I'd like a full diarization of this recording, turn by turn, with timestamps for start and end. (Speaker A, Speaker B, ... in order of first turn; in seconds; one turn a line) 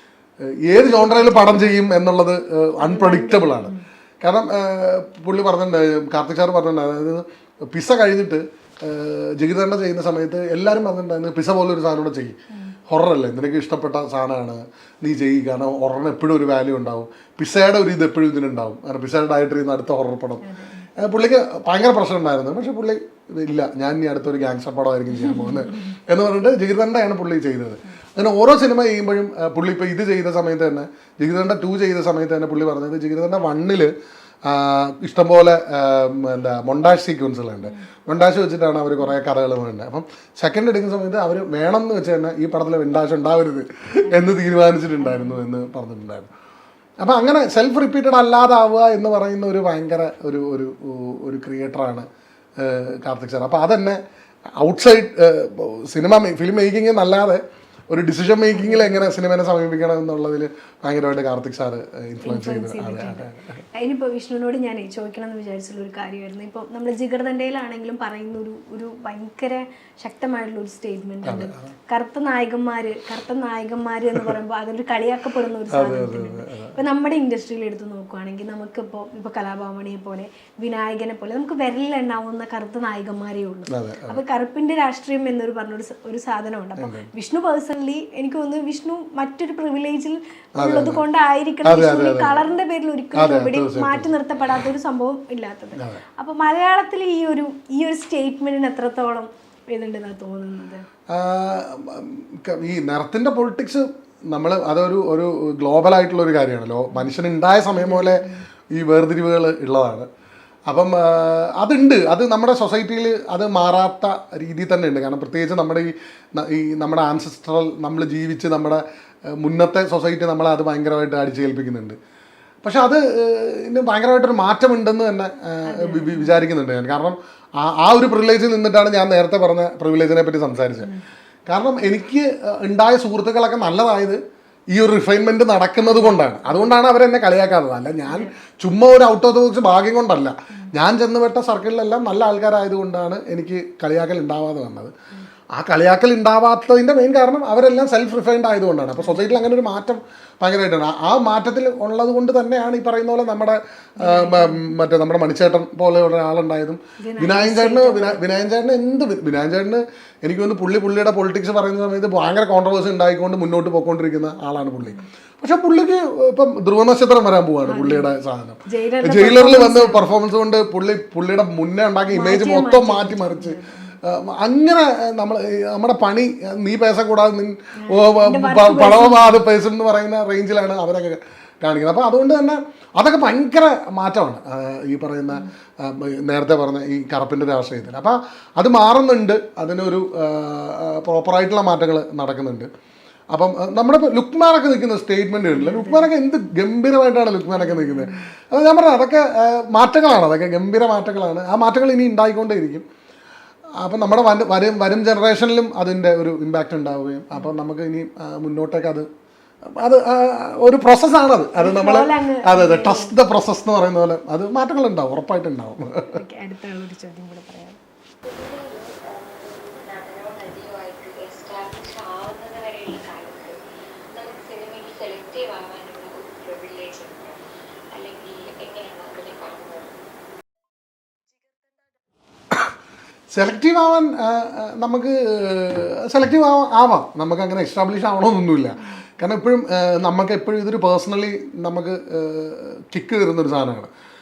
Speaker A: 0.4-12.4
Speaker B: 0.9-1.6
Speaker B: 2.8-3.8
Speaker A: 12.9-20.4
Speaker B: 20.4-20.9
Speaker A: 21.0-33.9
Speaker B: 25.2-25.8
Speaker A: 34.4-46.3
Speaker B: 45.0-45.4
Speaker A: 47.0-52.0
Speaker A: 52.6-54.0
Speaker A: 54.6-63.6
Speaker B: 58.5-59.0
Speaker B: 62.2-100.8
Speaker A: 71.2-71.7
Speaker A: 75.7-76.8
Speaker A: 83.7-84.2
Speaker A: 86.8-87.1
Speaker A: 90.6-91.0
Speaker A: 91.6-92.4
Speaker A: 93.1-94.1
Speaker A: 95.8-96.0
Speaker A: 101.1-110.1
Speaker B: 107.8-108.4
Speaker A: 110.7-118.8
Speaker A: 119.3-122.0
Speaker A: 122.6-130.9
Speaker B: 125.7-126.4
Speaker A: 131.5-134.2
Speaker A: 134.7-144.9
Speaker B: 135.8-136.2
Speaker A: 145.5-192.7
Speaker B: 149.0-149.4
Speaker B: 154.0-154.6
Speaker B: 157.0-158.2
Speaker B: 167.7-168.1
Speaker B: 168.7-170.1
Speaker B: 172.1-174.0
Speaker B: 177.8-179.4
Speaker A: 193.3-202.8
Speaker B: 195.5-196.1
Speaker B: 197.5-198.2
Speaker A: 203.8-209.1
Speaker A: 209.7-216.2
Speaker B: 211.6-213.1
Speaker B: 216.1-217.8
Speaker C: 218.2-223.6
Speaker C: 224.1-227.4
Speaker C: 227.9-229.9
Speaker A: 233.3-243.9